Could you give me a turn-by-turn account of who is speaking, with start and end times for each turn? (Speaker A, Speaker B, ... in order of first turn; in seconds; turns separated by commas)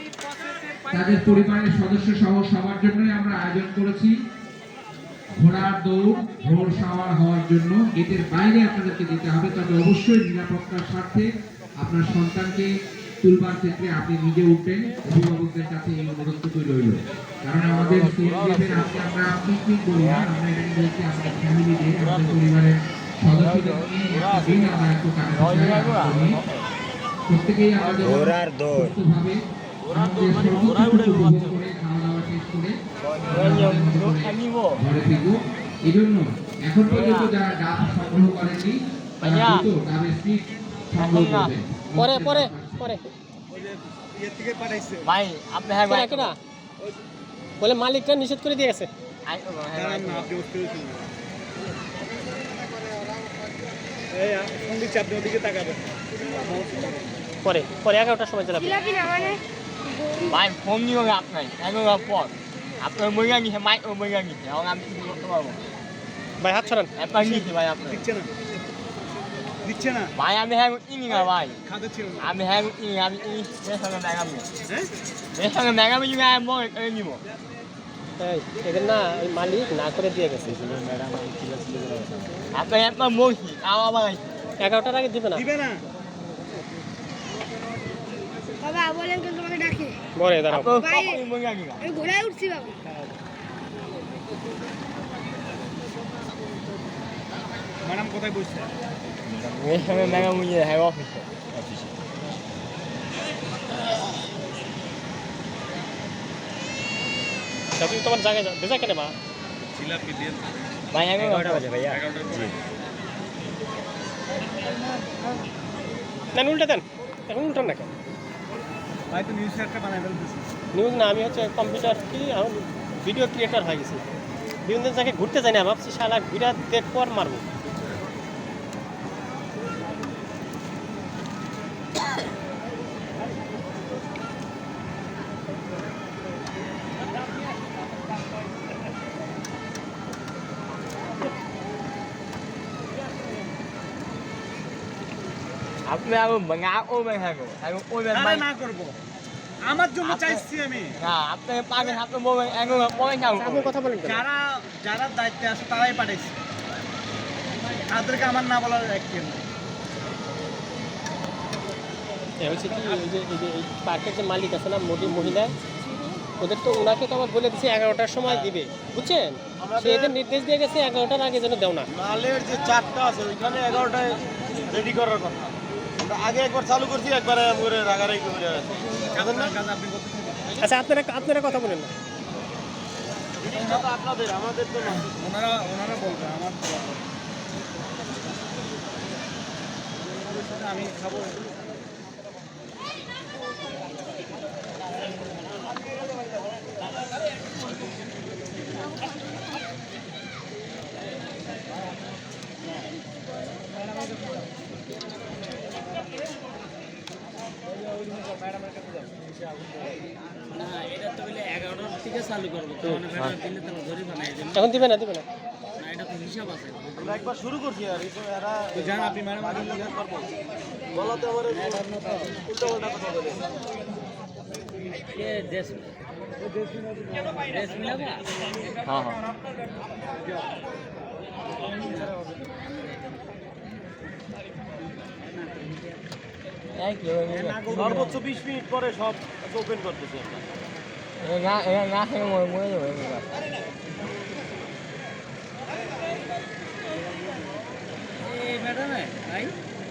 Speaker A: 0.9-4.1, Speaker A: 5.3-11.3, Speaker A: 11.8-12.7, Speaker A: 13.2-26.4, Speaker B: 23.5-23.8, Speaker C: 24.2-24.9, Speaker B: 25.3-26.6, Speaker A: 27.3-32.7, Speaker B: 28.0-28.9, Speaker C: 29.9-31.6, Speaker B: 33.0-34.8, Speaker A: 33.3-42.9, Speaker B: 36.9-37.4, Speaker B: 39.2-39.7, Speaker B: 41.0-41.6, Speaker D: 42.0-43.0, Speaker E: 43.5-45.1, Speaker B: 45.0-46.3, Speaker D: 45.9-46.4, Speaker D: 47.6-48.9, Speaker B: 49.2-50.3, Speaker E: 49.7-51.1, Speaker E: 54.1-57.0, Speaker D: 57.4-58.8, Speaker F: 58.5-60.3, Speaker B: 60.2-65.6, Speaker D: 66.4-66.9, Speaker B: 67.0-68.0, Speaker E: 67.2-68.3, Speaker E: 69.6-70.1, Speaker B: 70.1-71.6, Speaker E: 71.6-72.3, Speaker B: 72.2-74.5, Speaker B: 75.3-77.2, Speaker D: 78.2-80.5, Speaker C: 80.6-81.1, Speaker B: 81.2-81.9, Speaker B: 82.5-84.2, Speaker D: 84.6-85.4, Speaker E: 85.3-85.8, Speaker F: 88.6-90.0, Speaker D: 90.2-90.7, Speaker B: 90.5-91.8, Speaker F: 90.8-91.2, Speaker F: 91.8-92.7, Speaker E: 97.8-98.7, Speaker B: 99.3-101.9, Speaker D: 107.8-109.1, Speaker C: 109.8-110.4, Speaker B: 110.9-112.5, Speaker D: 116.3-117.9, Speaker E: 119.1-120.5, Speaker D: 120.7-124.0, Speaker D: 124.6-127.4, Speaker B: 145.8-148.4, Speaker E: 148.1-148.9, Speaker E: 149.7-150.9, Speaker B: 150.0-150.4, Speaker B: 151.0-153.7, Speaker D: 153.4-154.2, Speaker E: 154.0-156.3, Speaker E: 157.8-159.4, Speaker D: 162.4-165.6, Speaker D: 166.4-171.9, Speaker C: 169.6-170.0, Speaker C: 171.9-178.8, Speaker E: 179.1-180.6, Speaker D: 179.1-179.5, Speaker D: 180.6-181.9, Speaker C: 183.5-185.1, Speaker E: 183.5-183.9, Speaker E: 184.8-187.0, Speaker E: 190.3-191.4, Speaker F: 210.6-212.6, Speaker C: 211.7-214.4, Speaker B: 213.0-213.4, Speaker D: 214.5-215.2, Speaker F: 215.8-216.9, Speaker C: 216.9-218.9, Speaker E: 218.7-220.0, Speaker C: 219.5-220.3, Speaker C: 220.9-223.4, Speaker F: 225.1-225.8, Speaker F: 227.4-228.2, Speaker B: 228.8-229.2, Speaker F: 231.8-232.1, Speaker F: 235.5-235.9, Speaker B: 236.7-238.2, Speaker C: 237.8-240.4, Speaker B: 241.2-243.3, Speaker F: 248.3-249.3